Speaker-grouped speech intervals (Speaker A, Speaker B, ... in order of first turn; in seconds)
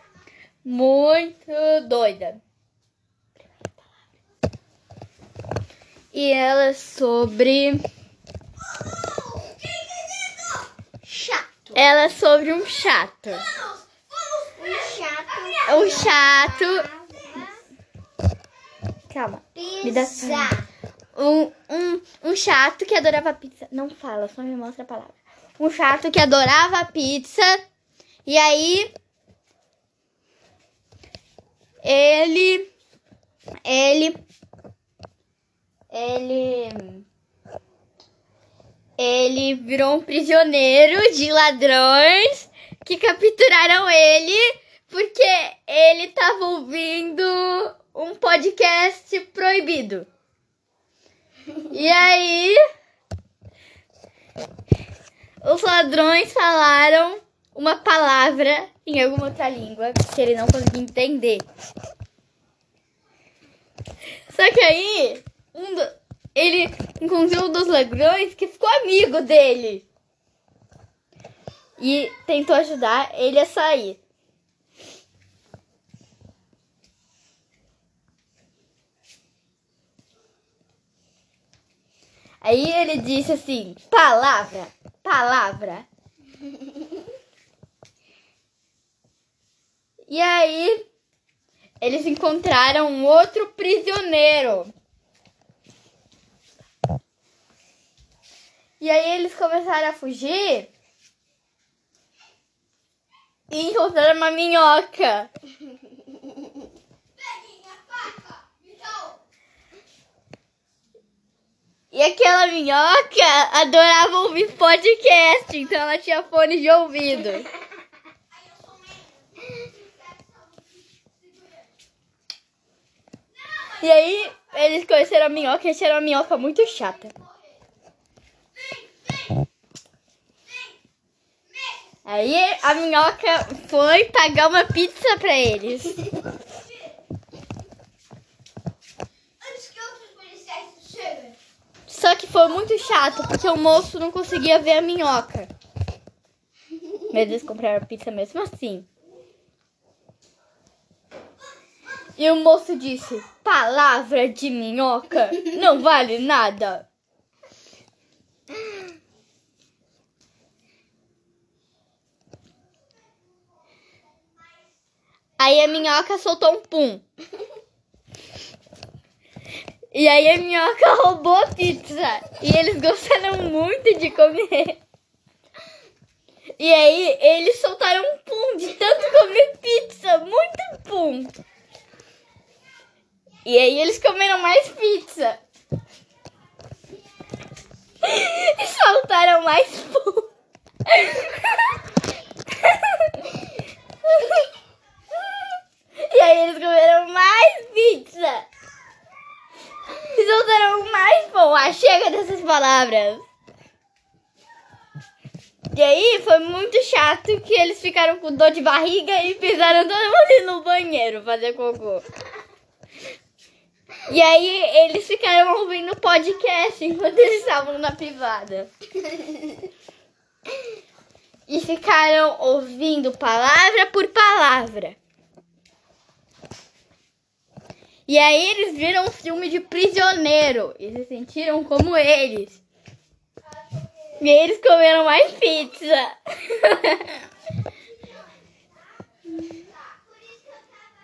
Speaker A: 0.6-2.4, 6.1-7.8, 11.7-13.5, 15.6-16.9, 19.1-20.6, 21.1-27.6, 28.2-28.9, 31.8-32.7, 33.6-34.2, 35.9-37.0, 39.0-50.1, 51.7-52.6, 55.4-61.4, 64.3-69.8, 71.8-74.0, 82.4-85.9, 90.1-90.8, 91.8-94.7, 98.8-100.7, 103.5-105.3, 111.9-117.5, 123.6-127.1, 132.0-136.1, 141.9-145.5, 147.1-148.9, 152.2-156.9, 165.4-167.0, 169.9-174.8, 176.6-181.3, 183.4-185.4, 188.0-190.3, 190.8-191.8, 192.6-193.2, 194.1-194.4, 196.0-198.5, 200.0-203.2, 205.7-212.1, 214.1-219.2, 221.5-225.0, 228.1-232.6, 234.2-237.2
Speaker B: 8.9-11.7, 13.6-17.5, 19.6-20.6, 107.5-108.2, 139.4-141.3